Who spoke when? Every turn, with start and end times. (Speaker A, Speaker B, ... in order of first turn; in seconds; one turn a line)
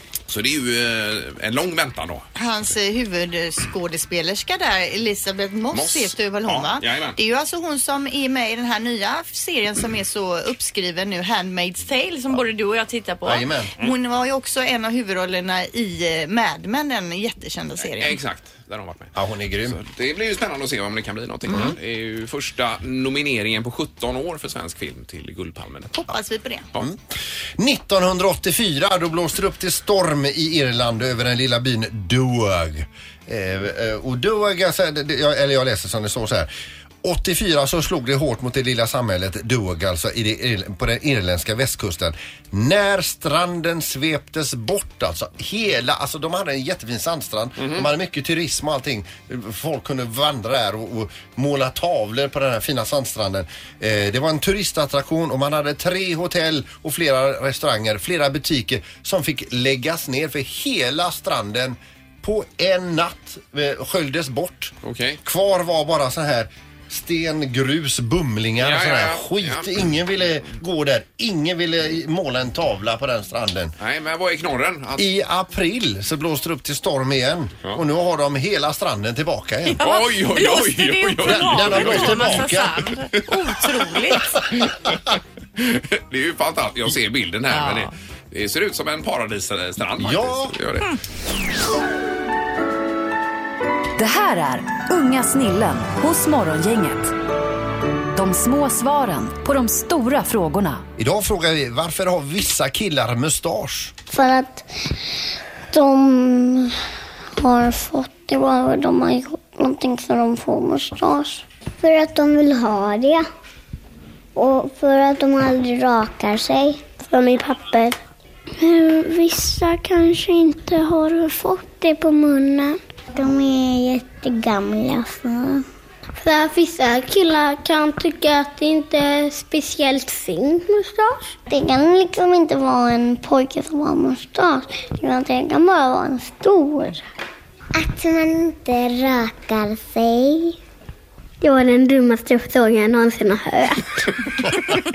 Speaker A: 0.3-2.2
Speaker B: 2.4-18.1
Speaker A: 5.7-7.2
Speaker C: 13.2-13.7
Speaker A: 17.9-26.0
Speaker C: 19.1-19.8
Speaker C: 21.5-21.8
Speaker B: 25.9-26.6
Speaker C: 27.6-36.5
Speaker C: 37.0-64.7
Speaker A: 47.6-47.9
Speaker A: 64.8-65.2
Speaker C: 65.2-73.7
Speaker A: 68.6-69.7
Speaker A: 73.8-75.1
Speaker C: 75.0-79.8
Speaker B: 79.7-84.4
Speaker A: 79.8-82.5
Speaker C: 81.2-83.0
Speaker A: 84.6-90.9
Speaker B: 87.5-87.9
Speaker C: 90.0-90.5
Speaker D: 94.0-97.1
Speaker D: 98.1-100.8
Speaker C: 101.0-103.9
Speaker E: 104.1-104.7
Speaker E: 105.7-106.7
Speaker E: 107.4-113.2
Speaker E: 114.3-118.0
Speaker E: 118.6-125.6
Speaker E: 126.2-137.0
Speaker E: 137.7-140.6
Speaker E: 141.4-144.1